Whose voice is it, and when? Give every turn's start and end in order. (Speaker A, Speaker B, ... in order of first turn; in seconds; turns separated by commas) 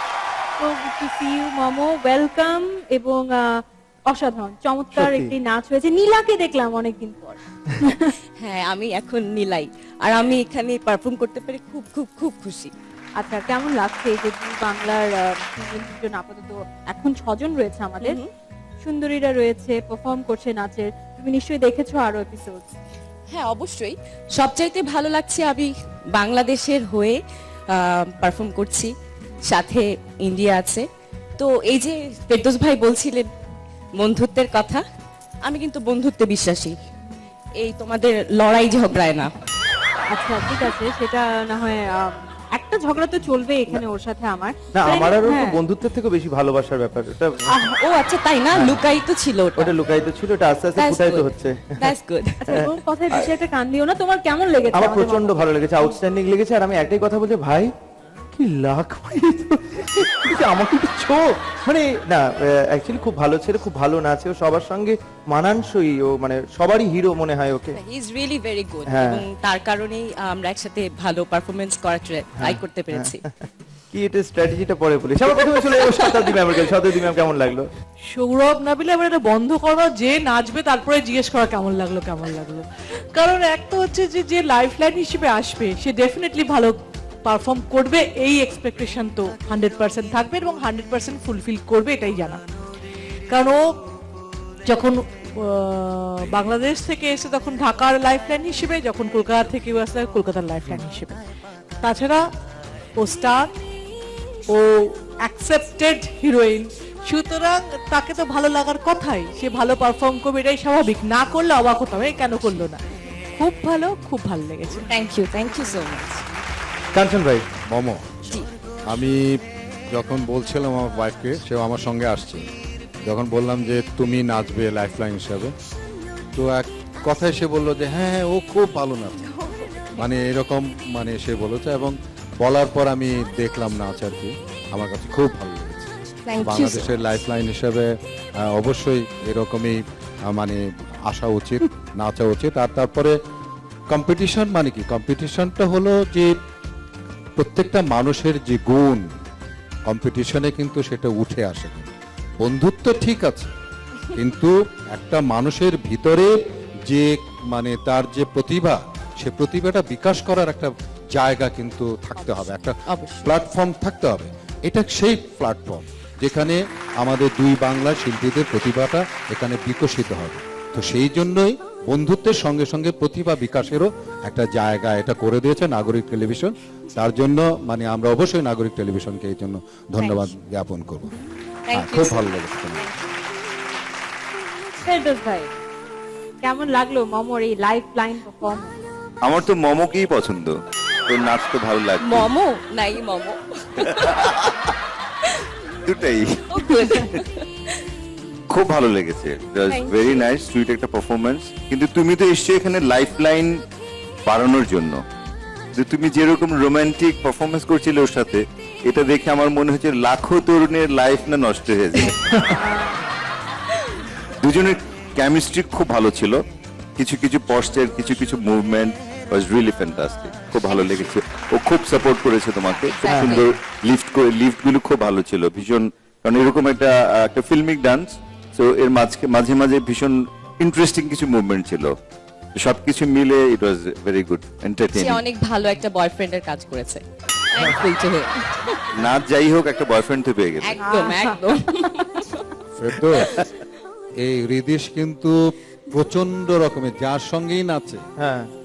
Speaker A: 0.6-8.1, Speaker B: 4.9-5.3, Speaker C: 8.4-12.7, Speaker A: 13.2-18.2, Speaker C: 18.0-18.3, Speaker A: 18.8-22.7, Speaker C: 23.3-27.2, Speaker C: 27.7-28.9, Speaker C: 29.5-30.9, Speaker C: 31.4-33.3, Speaker C: 34.0-34.8, Speaker C: 35.4-36.8, Speaker C: 37.6-39.3, Speaker A: 40.1-45.6, Speaker B: 44.7-47.5, Speaker C: 47.8-49.7, Speaker B: 48.5-48.8, Speaker B: 49.6-51.8, Speaker C: 50.8-52.7, Speaker A: 52.5-55.9, Speaker B: 54.7-57.7, Speaker B: 58.3-67.8, Speaker C: 67.7-73.2, Speaker B: 68.8-69.2, Speaker B: 72.4-77.7, Speaker D: 78.1-92.4, Speaker D: 93.3-93.8, Speaker D: 94.7-101.2, Speaker D: 101.8-102.2, Speaker D: 103.0-103.5, Speaker D: 104.5-112.8, Speaker D: 113.4-114.8, Speaker C: 114.9-116.2, Speaker B: 116.9-117.4, Speaker E: 117.7-118.1, Speaker E: 118.9-119.2, Speaker E: 119.9-122.5, Speaker E: 123.0-125.5, Speaker E: 126.3-129.3, Speaker E: 129.9-137.9, Speaker C: 136.3-136.9, Speaker E: 138.5-143.2, Speaker E: 143.9-146.3, Speaker E: 147.4-149.1, Speaker E: 149.8-153.5, Speaker E: 154.1-156.3, Speaker E: 156.9-181.1, Speaker C: 162.9-163.3, Speaker C: 180.0-180.3, Speaker C: 181.7-183.0, Speaker E: 181.7-182.9, Speaker A: 184.8-185.5, Speaker A: 186.4-188.8, Speaker F: 189.2-190.6, Speaker F: 191.1-192.3, Speaker C: 192.0-194.5, Speaker F: 195.9-197.0, Speaker C: 196.5-197.4, Speaker F: 198.5-203.6, Speaker C: 199.7-200.2, Speaker F: 204.2-205.0, Speaker F: 205.7-212.2, Speaker F: 214.4-216.4, Speaker F: 217.0-231.9, Speaker C: 222.6-223.5, Speaker B: 223.1-223.4, Speaker F: 232.6-235.2, Speaker C: 234.9-238.8, Speaker F: 238.9-240.8, Speaker C: 240.6-242.4, Speaker A: 240.8-241.4, Speaker E: 242.8-243.3, Speaker C: 243.2-243.4, Speaker E: 244.2-245.4, Speaker E: 245.9-248.0, Speaker B: 248.2-248.5